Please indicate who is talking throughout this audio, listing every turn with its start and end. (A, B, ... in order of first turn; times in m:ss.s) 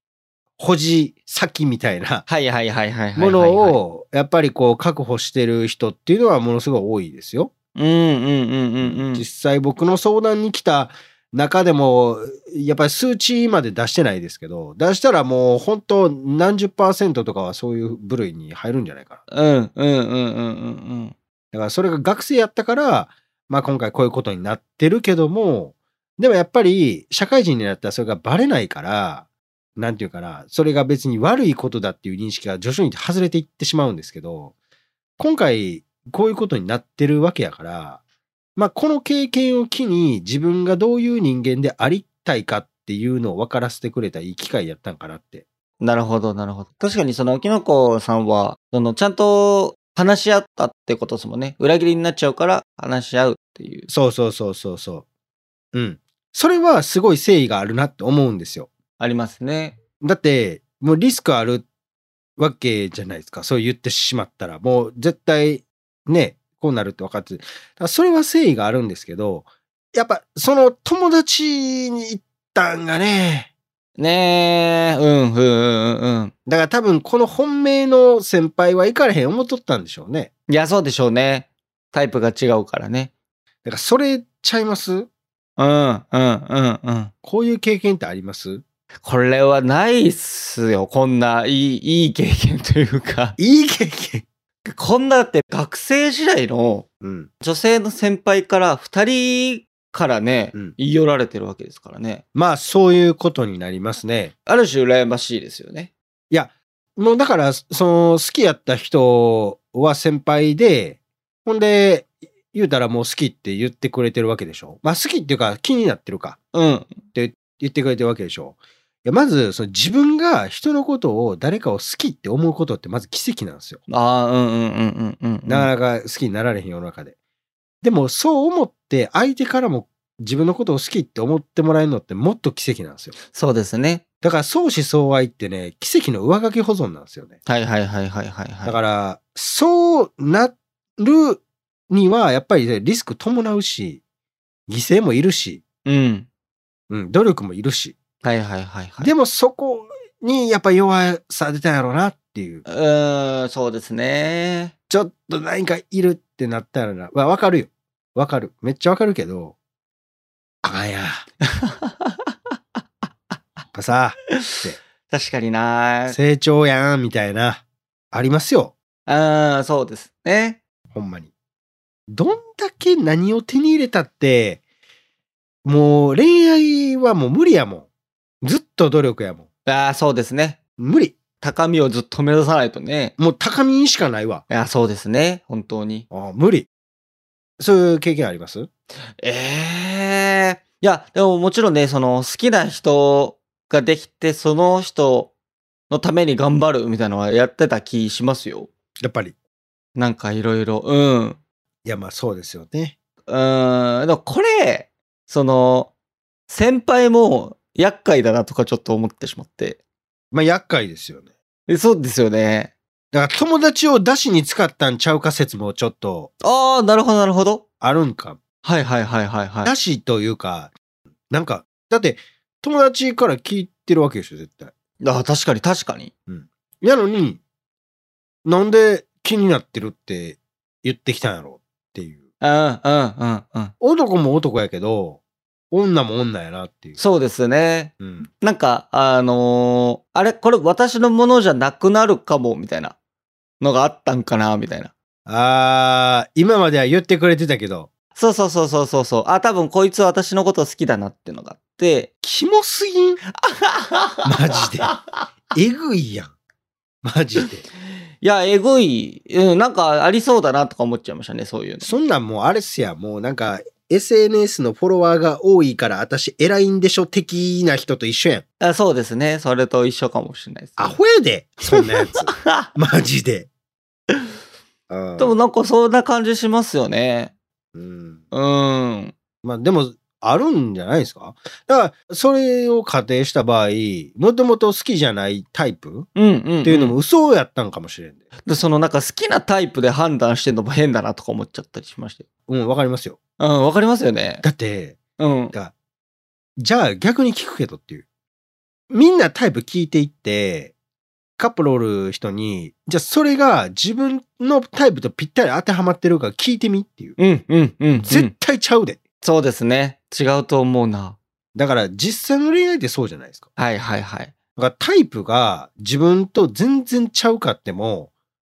0:00.6-0:02.2 A
0:02.3-0:03.8 B
0:03.2-0:07.5 A
0:07.8-0:09.2 B
0:08.8-0:19.2 A
0:19.3-0:21.1 B
0:21.5-0:34.5 A
0:35.2-0:38.0 A
0:38.6-0:45.5 A
0:45.8-0:53.9 B
0:53.9-0:55.0 A
0:55.7-0:58.7 A
0:59.0-0:59.8 B
1:00.0-1:01.6 A
1:02.4-1:13.5 A
1:14.0-1:16.3 B
1:16.5-1:20.3 A
1:20.5-1:23.1 B
1:23.6-1:25.1 A
1:25.6-1:27.1 B
1:27.2-1:28.6 A
1:29.0-1:33.4 B
1:33.4-1:34.2 A
1:34.6-1:36.9 B
1:37.0-1:37.3 A
1:37.4-1:42.2 B
1:42.3-1:44.3 A
1:44.5-1:45.9 B
1:46.3-1:56.4 A
1:56.5-1:57.0 B
1:57.1-2:03.8 A
2:03.9-2:05.7 B
2:05.5-2:07.1 A
2:07.8-2:13.1 A
2:13.3-2:14.0 B
2:14.2-2:17.4 A
2:17.5-2:18.8 B
2:18.6-2:24.0 A
2:24.7-2:25.6 A
2:25.8-2:26.3 B
2:26.9-2:28.0 A
2:28.2-2:29.1 B
2:29.0-2:32.6 A
2:32.6-2:34.7 B
2:34.9-2:39.6 A
2:40.6-2:41.2 A
2:41.5-2:42.3 B
2:43.7-2:44.8 A
2:44.3-2:46.2 B
2:46.1-2:48.7 A
2:49.1-2:50.6 B
2:50.9-2:51.3 A
2:52.1-2:54.6 A
2:55.6-2:57.9 A
2:58.4-2:59.5 A
2:59.6-3:00.6 B
3:00.8-3:01.2 A
3:01.4-3:03.1 B
3:03.2-3:04.4 A
3:04.5-3:06.1 B
3:06.1-3:06.7 A
3:07.6-3:08.7 A
3:09.2-3:15.3 B
3:15.9-3:18.7 B
3:19.0-3:19.4 A
3:20.0-3:21.4 B
3:21.8-3:23.0 A
3:23.3-3:25.9 B
3:26.5-3:29.8 B
3:30.3-3:31.3 A
3:31.7-3:32.7 B
3:33.1-3:36.3 A
3:36.4-3:37.6 B
3:37.8-3:38.4 A
3:38.6-3:39.7 B
3:39.6-3:40.7 A
3:41.3-3:44.7 A
3:45.0-3:46.1 B
3:46.3-3:47.4 A
3:48.4-3:52.2 A
3:52.4-3:53.7 B
3:53.8-3:55.2 A
3:55.7-3:57.0 A
3:57.0-4:03.0 B
3:58.0-3:58.3 A
4:03.6-4:04.9 B
4:05.2-4:07.9 A
4:08.1-4:12.1 B
4:12.2-4:13.2 A
4:13.4-4:15.0 B
4:14.2-4:14.9 A
4:15.5-4:16.3 A
4:17.0-4:17.6 A
4:18.2-4:21.9 B
4:21.8-4:28.4 A
4:28.6-4:31.0 B
4:30.8-4:33.5 A
4:31.7-4:32.7 B
4:34.9-4:35.4 A
4:35.2-4:37.3 B
4:37.7-4:38.2 A
4:38.3-4:39.1 B
4:39.4-4:46.1 A
4:46.2-4:47.0 B
4:46.6-4:48.2 A
4:48.4-4:52.2 B
4:52.5-4:53.2 A
4:53.4-4:54.4 B
4:54.4-4:55.0 A
4:55.2-4:55.5 B
4:56.6-4:58.0 A
4:58.9-5:00.7 A
5:01.4-5:07.2 A
5:07.2-5:08.3 B
5:08.0-5:09.0 A
5:09.2-5:11.2 B
5:11.6-5:13.5 A
5:13.6-5:14.3 B
5:14.6-5:18.1 A